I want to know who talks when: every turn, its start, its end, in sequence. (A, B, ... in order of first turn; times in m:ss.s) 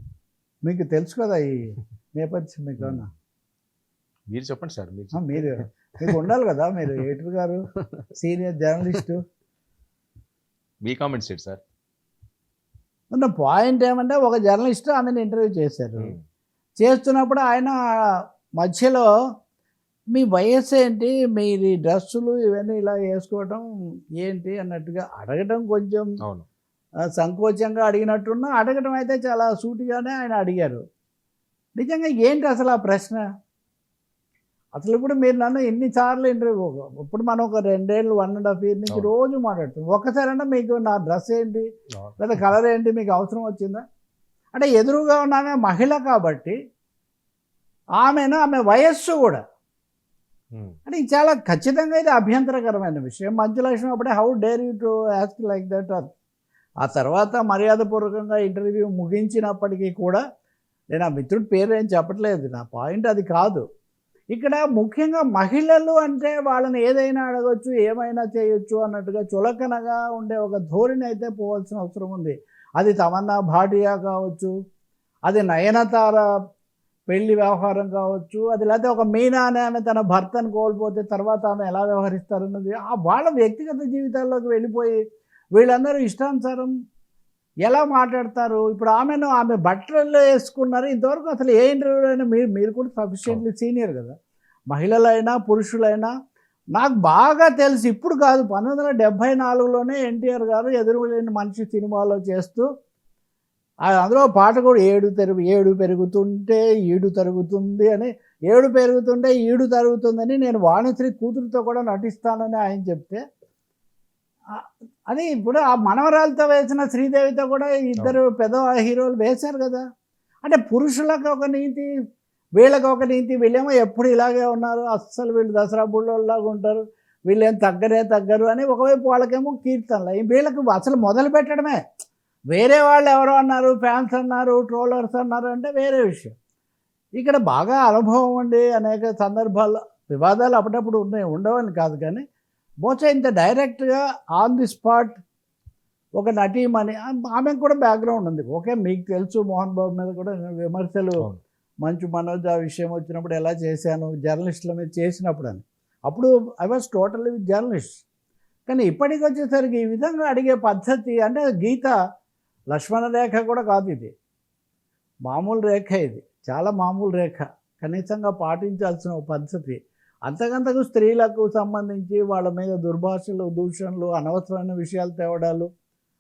0:00.7-0:03.1 A
0:04.3-0:06.1 B
0:05.2-0:07.6 A
0:08.2-0:09.2 A
0:10.8-0:11.6 B
0:13.1-0:16.2 A
0:16.8-0:17.7 A
0:18.6-0:19.1 A
0:20.1-0:23.6 A
0:24.2-0:26.1 A
0:27.2-0:30.8 A
0:31.8-0:33.2 A
0:34.8-0:41.7 A
0:42.0-0:42.4 B
0:42.2-0:43.8 A
0:44.6-0:46.6 A
0:48.0-0:49.4 A
0:50.9-0:56.0 A
0:56.8-1:00.2 A
1:00.9-1:03.6 A
1:04.3-1:14.5 A
1:15.3-1:16.2 A
1:17.1-1:25.0 A
1:25.6-1:26.7 A
1:27.7-1:34.1 A
1:34.7-1:36.1 A
1:36.8-1:42.7 A
1:43.9-1:53.2 A
1:54.5-1:59.8 A
2:00.4-2:01.9 A
2:02.6-2:11.8 A
2:12.5-2:16.3 A
2:17.2-2:22.2 A
2:22.8-2:25.2 A
2:26.2-2:31.2 A
2:31.8-2:37.9 A
2:38.7-2:41.9 A
2:42.7-2:44.1 A
2:45.3-2:55.7 A